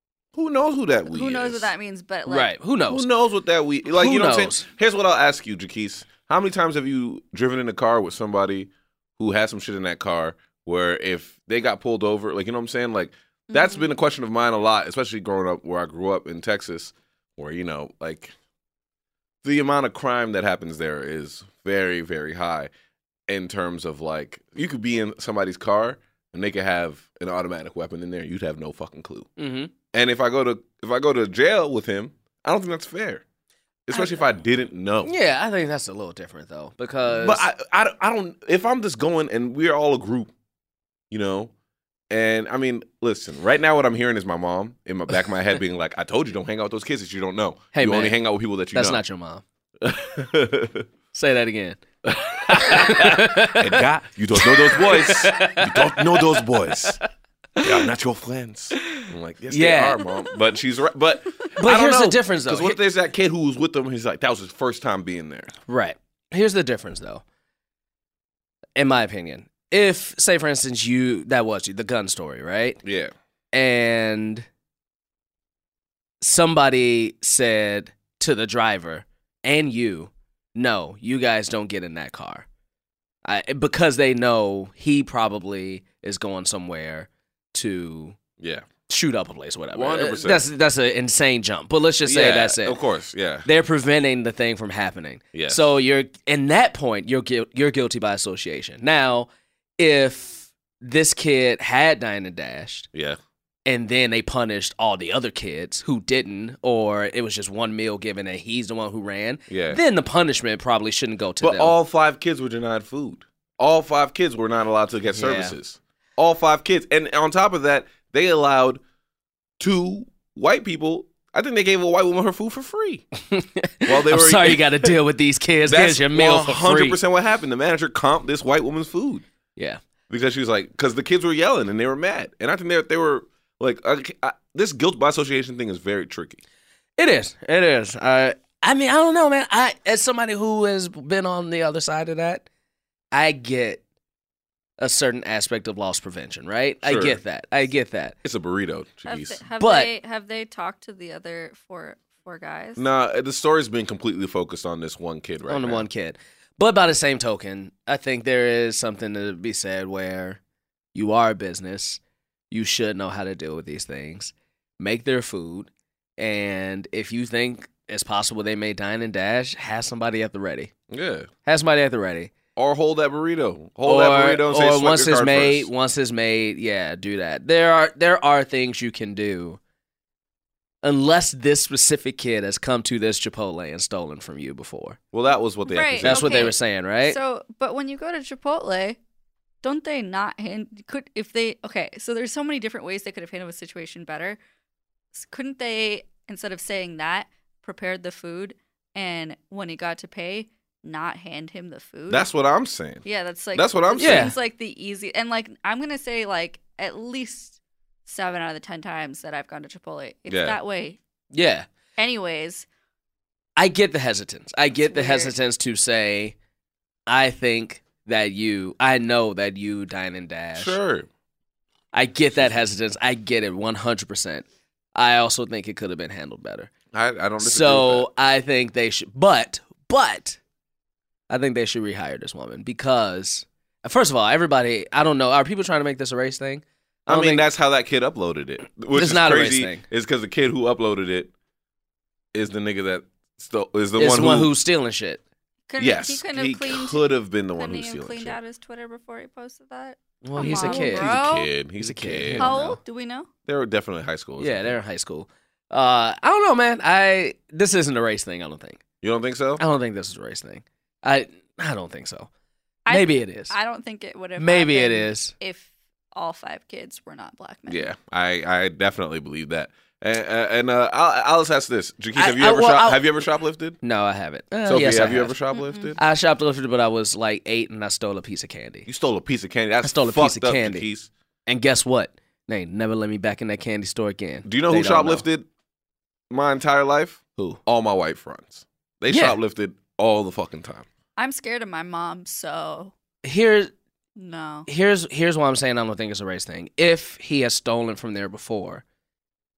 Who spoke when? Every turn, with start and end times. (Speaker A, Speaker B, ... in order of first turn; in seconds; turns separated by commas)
Speaker A: 0.3-1.7, Speaker B: 1.1-2.5, Speaker C: 2.3-3.1, Speaker A: 2.9-18.3, Speaker C: 3.9-4.6, Speaker B: 13.5-13.8, Speaker A: 19.4-22.7, Speaker A: 23.3-29.3, Speaker C: 29.4-29.7, Speaker A: 29.9-33.2, Speaker A: 33.9-35.1, Speaker C: 35.0-37.5, Speaker A: 37.1-40.3, Speaker A: 41.1-41.5, Speaker A: 42.1-49.0, Speaker C: 47.7-48.1, Speaker C: 48.7-49.4, Speaker A: 49.8-50.9, Speaker C: 51.1-53.8, Speaker A: 52.1-57.0, Speaker C: 54.4-57.0, Speaker A: 57.6-65.5, Speaker C: 58.9-60.0, Speaker C: 61.6-62.8, Speaker C: 65.7-67.2, Speaker C: 68.8-72.8, Speaker A: 72.8-73.1, Speaker C: 73.5-74.5, Speaker C: 76.2-82.5, Speaker C: 83.2-88.2, Speaker A: 88.4-88.7, Speaker C: 88.9-92.8, Speaker A: 89.7-90.4, Speaker A: 92.0-93.5, Speaker C: 93.4-102.9, Speaker A: 95.3-95.7, Speaker A: 102.9-103.2, Speaker C: 103.7-111.7, Speaker A: 109.5-109.8, Speaker A: 111.4-118.8, Speaker C: 115.1-115.5, Speaker A: 119.6-123.0, Speaker C: 123.2-127.0, Speaker A: 123.8-124.9, Speaker A: 125.7-129.2, Speaker A: 130.1-136.4, Speaker C: 137.0-142.4, Speaker C: 143.1-143.8, Speaker C: 144.8-148.2, Speaker A: 146.8-147.2, Speaker A: 148.2-149.4, Speaker B: 149.1-152.8, Speaker C: 149.6-149.9, Speaker A: 152.8-155.8, Speaker C: 155.5-160.4, Speaker C: 160.9-170.7, Speaker A: 170.9-171.3, Speaker C: 171.4-172.3, Speaker A: 172.6-175.7, Speaker C: 173.8-179.6, Speaker C: 180.8-185.0, Speaker A: 185.1-186.5, Speaker B: 185.6-189.0, Speaker C: 186.0-187.2, Speaker B: 189.6-194.4, Speaker B: 195.1-202.3, Speaker A: 202.1-204.3, Speaker B: 203.0-211.0, Speaker C: 204.0-204.3, Speaker A: 210.3-210.6, Speaker C: 211.3-211.7, Speaker B: 212.0-212.7, Speaker C: 213.6-216.3, Speaker B: 214.9-215.3, Speaker C: 217.1-220.8, Speaker A: 220.6-221.1, Speaker C: 221.9-226.7, Speaker A: 226.9-228.1, Speaker C: 227.4-230.4, Speaker C: 231.3-237.4, Speaker A: 237.1-241.3, Speaker C: 238.9-239.8, Speaker A: 242.3-244.5, Speaker C: 244.0-245.2, Speaker B: 245.7-247.0, Speaker A: 245.8-248.4, Speaker B: 247.5-251.5, Speaker C: 250.2-251.1, Speaker A: 250.3-252.8, Speaker C: 251.8-252.8, Speaker B: 252.4-253.3, Speaker A: 253.5-254.7, Speaker C: 254.4-258.8, Speaker A: 259.0-259.6, Speaker C: 259.6-262.3, Speaker B: 262.9-267.9, Speaker C: 262.9-263.5, Speaker C: 264.4-265.3, Speaker A: 267.7-273.8, Speaker C: 272.1-273.1, Speaker C: 273.8-275.4, Speaker A: 274.6-276.0, Speaker B: 275.5-275.9, Speaker C: 276.0-278.9, Speaker A: 278.9-281.1, Speaker C: 279.8-280.9, Speaker C: 281.5-285.2, Speaker A: 284.4-285.5, Speaker A: 286.3-290.9, Speaker C: 289.1-289.4, Speaker B: 291.2-292.9, Speaker C: 293.2-293.7, Speaker B: 294.1-294.7, Speaker C: 294.7-298.8